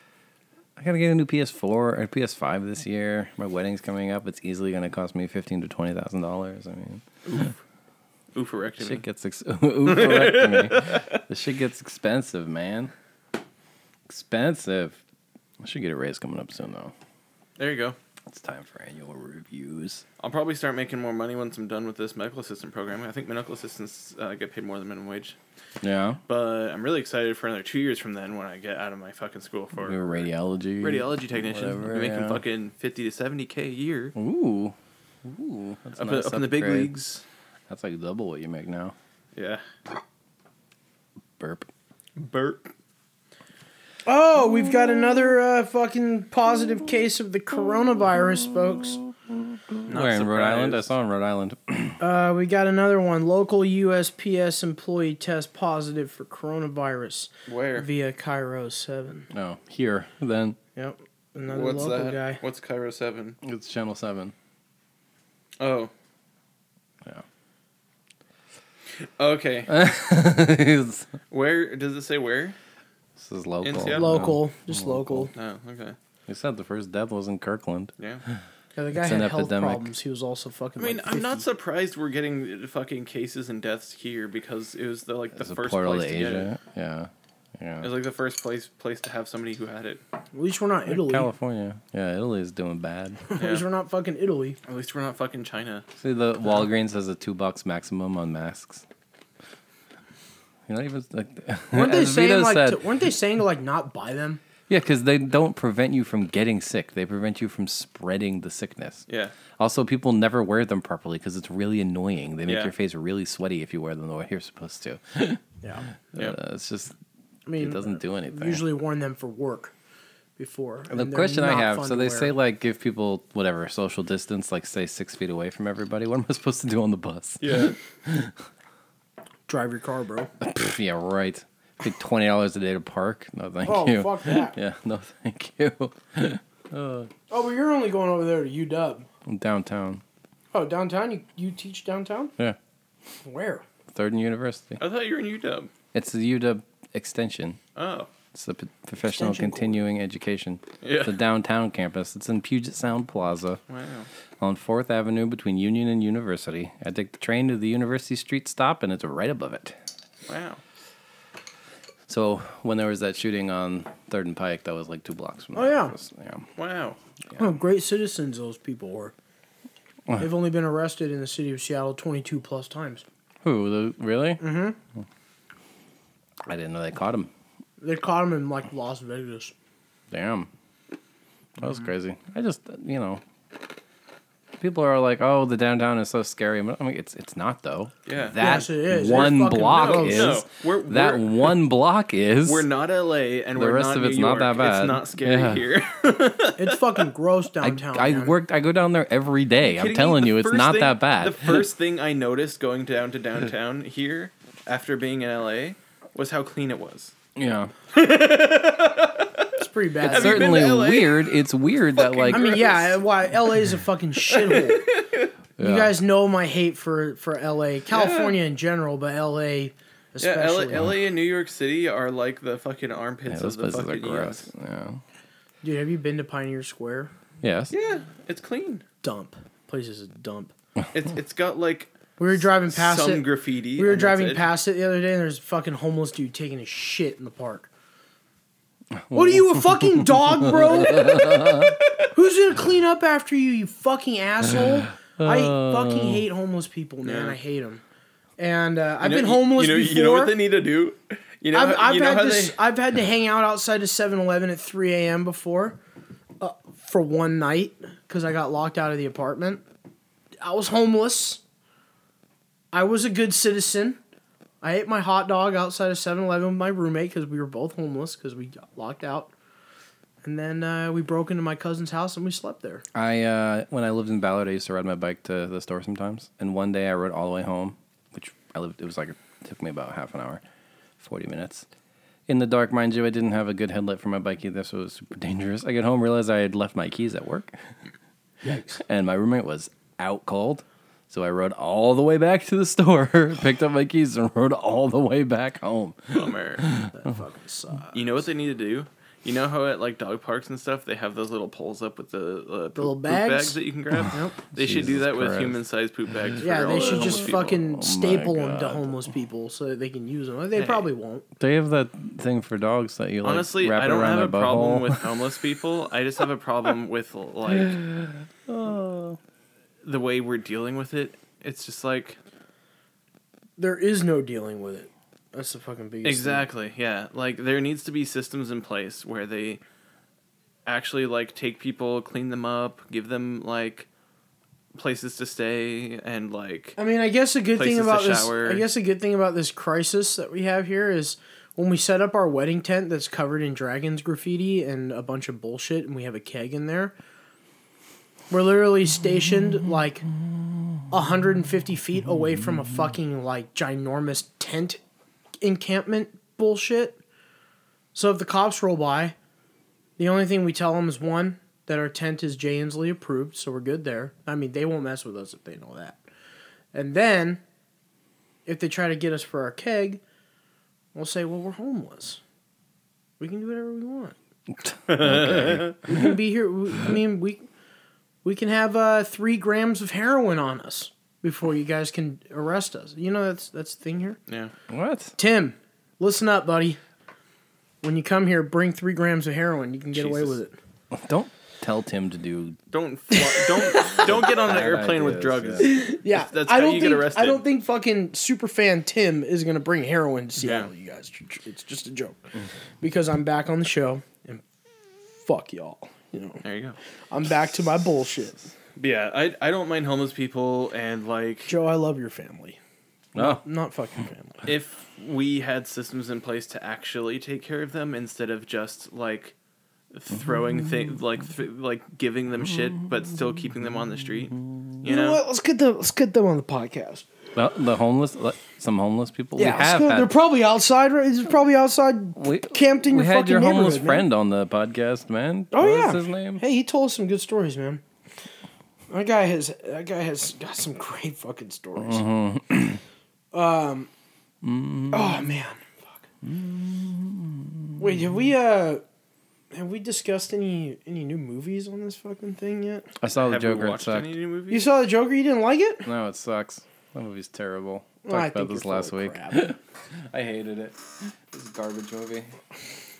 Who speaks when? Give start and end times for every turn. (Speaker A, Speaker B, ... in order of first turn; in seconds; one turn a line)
Speaker A: 0.8-7.4
Speaker B: 7.2-7.5
Speaker B: 8.3-9.0
Speaker A: 8.8-12.9
Speaker B: 9.8-11.2
Speaker A: 14.1-15.0
Speaker A: 15.6-16.9
Speaker B: 17.6-17.9
Speaker A: 18.3-20.0
Speaker B: 20.2-25.4
Speaker A: 25.8-26.2
Speaker B: 26.3-30.3
Speaker A: 29.8-32.4
Speaker B: 30.8-34.1
Speaker A: 34.1-36.9
Speaker B: 36.0-37.2
Speaker A: 37.7-38.9
Speaker B: 39.3-39.6
Speaker A: 41.4-41.7
Speaker B: 42.2-42.7
Speaker C: 44.0-49.0
Speaker A: 49.7-52.0
Speaker B: 49.9-50.9
Speaker C: 52.0-59.3
Speaker B: 57.5-57.9
Speaker A: 59.3-60.6
Speaker C: 60.8-62.4
Speaker B: 61.5-63.4
Speaker A: 63.4-64.3
Speaker B: 65.6-65.9
Speaker B: 69.0-69.7
Speaker A: 69.7-71.1
Speaker B: 71.3-72.5
Speaker A: 73.2-75.3
Speaker B: 73.6-74.3
Speaker C: 73.9-75.3
Speaker B: 75.3-76.0
Speaker A: 76.3-78.4
Speaker B: 78.0-78.2
Speaker C: 78.7-81.4
Speaker A: 78.9-79.9
Speaker B: 80.8-86.5
Speaker A: 85.4-87.9
Speaker B: 87.8-90.0
Speaker C: 90.3-91.3
Speaker A: 90.9-93.2
Speaker C: 93.3-94.6
Speaker B: 93.4-93.6
Speaker B: 94.7-95.8
Speaker A: 96.0-98.8
Speaker A: 100.7-102.8
Speaker C: 101.7-104.4
Speaker A: 104.7-109.0
Speaker B: 109.1-109.3
Speaker A: 109.6-115.4
Speaker B: 112.5-112.7
Speaker A: 116.1-116.9
Speaker C: 117.5-119.7
Speaker A: 117.6-118.6
Speaker C: 120.4-122.3
Speaker A: 120.9-128.3
Speaker B: 127.4-127.8
Speaker C: 129.5-130.3
Speaker A: 130.4-137.1
Speaker C: 133.6-134.6
Speaker C: 137.3-139.1
Speaker A: 139.2-140.0
Speaker C: 140.5-142.3
Speaker C: 143.2-143.6
Speaker A: 143.9-144.8
Speaker B: 144.8-145.7
Speaker A: 145.9-147.6
Speaker B: 147.7-148.1
Speaker A: 148.3-153.6
Speaker C: 149.1-149.8
Speaker B: 150.8-151.1
Speaker B: 153.7-154.1
Speaker A: 154.4-159.8
Speaker B: 160.3-160.6
Speaker A: 162.1-166.5
Speaker C: 165.5-165.9
Speaker B: 166.6-167.0
Speaker C: 167.4-169.1
Speaker C: 170.2-173.0
Speaker A: 173.4-174.4
Speaker C: 174.4-174.8
Speaker A: 176.4-177.3
Speaker C: 177.8-179.5
Speaker A: 180.1-180.5
Speaker A: 181.6-183.2
Speaker A: 184.6-192.7
Speaker B: 188.1-191.6
Speaker C: 188.4-190.4
Speaker B: 192.4-196.8
Speaker A: 193.6-195.6
Speaker C: 196.5-198.3
Speaker A: 197.6-201.7
Speaker B: 199.6-207.1
Speaker A: 207.3-207.7
Speaker B: 207.9-209.5
Speaker C: 209.6-210.6
Speaker B: 210.0-211.3
Speaker A: 210.1-212.7
Speaker B: 211.9-212.9
Speaker C: 212.3-214.9
Speaker B: 214.3-215.3
Speaker A: 215.6-215.9
Speaker C: 215.6-220.9
Speaker B: 217.9-218.4
Speaker B: 220.2-224.5
Speaker A: 223.3-225.0
Speaker C: 225.6-227.1
Speaker A: 227.4-227.7
Speaker B: 227.7-228.8
Speaker C: 229.0-230.5
Speaker B: 230.9-234.5
Speaker C: 232.2-237.7
Speaker A: 239.1-241.7
Speaker C: 239.1-247.8
Speaker B: 241.2-241.7
Speaker A: 245.2-246.2
Speaker B: 247.0-247.4
Speaker C: 248.4-250.4
Speaker B: 249.0-252.6
Speaker C: 251.5-255.8
Speaker C: 256.4-259.6
Speaker C: 260.4-261.4
Speaker C: 262.7-264.0
Speaker C: 264.6-269.3
Speaker C: 270.2-272.8
Speaker A: 272.9-280.4
Speaker A: 281.0-281.7
Speaker A: 282.3-287.5
Speaker C: 288.4-288.8
Speaker A: 288.8-296.9
Speaker B: 296.1-296.7
Speaker C: 296.9-298.1
Speaker B: 297.9-307.6
Speaker C: 302.8-304.4
Speaker A: 304.6-305.6
Speaker C: 306.4-311.2
Speaker A: 306.6-309.0
Speaker B: 310.6-310.9
Speaker A: 311.4-315.1
Speaker B: 313.2-317.8
Speaker A: 317.6-319.2
Speaker B: 319.8-322.2
Speaker C: 323.6-326.4
Speaker B: 326.0-329.6
Speaker B: 330.6-333.9
Speaker B: 334.7-336.8
Speaker C: 336.8-346.9
Speaker B: 337.6-338.7
Speaker C: 348.3-350.1
Speaker C: 350.9-354.8
Speaker C: 355.4-357.0
Speaker C: 357.9-359.1
Speaker C: 360.0-366.0
Speaker C: 366.7-367.4
Speaker C: 368.4-370.0
Speaker C: 370.9-372.2
Speaker C: 373.2-374.1
Speaker A: 374.6-376.1
Speaker B: 374.9-375.8
Speaker C: 375.8-377.5
Speaker C: 378.2-384.2
Speaker A: 384.7-385.1
Speaker C: 385.2-386.8
Speaker C: 387.8-390.6
Speaker B: 389.9-390.4
Speaker A: 390.9-392.6
Speaker B: 392.7-397.4
Speaker C: 393.1-394.1
Speaker A: 394.0-395.8
Speaker C: 395.6-402.3
Speaker B: 400.4-400.7
Speaker C: 402.8-404.4
Speaker C: 405.1-406.4
Speaker B: 406.4-406.8
Speaker C: 407.1-408.4
Speaker B: 408.8-411.5
Speaker C: 411.5-412.6
Speaker A: 413.1-413.4
Speaker C: 413.1-414.4
Speaker B: 414.4-419.3
Speaker B: 419.9-425.2
Speaker C: 424.8-427.1
Speaker A: 427.3-430.1
Speaker C: 429.4-434.1
Speaker A: 432.2-436.4
Speaker C: 435.5-437.8
Speaker C: 438.9-442.0
Speaker A: 441.8-442.8
Speaker C: 443.3-443.9
Speaker A: 444.4-445.3
Speaker C: 444.9-446.0
Speaker A: 446.2-447.8
Speaker C: 447.8-448.8
Speaker C: 449.5-452.9
Speaker A: 453.0-454.1
Speaker B: 453.1-454.7
Speaker C: 454.5-455.9
Speaker A: 455.8-462.3
Speaker C: 458.0-459.5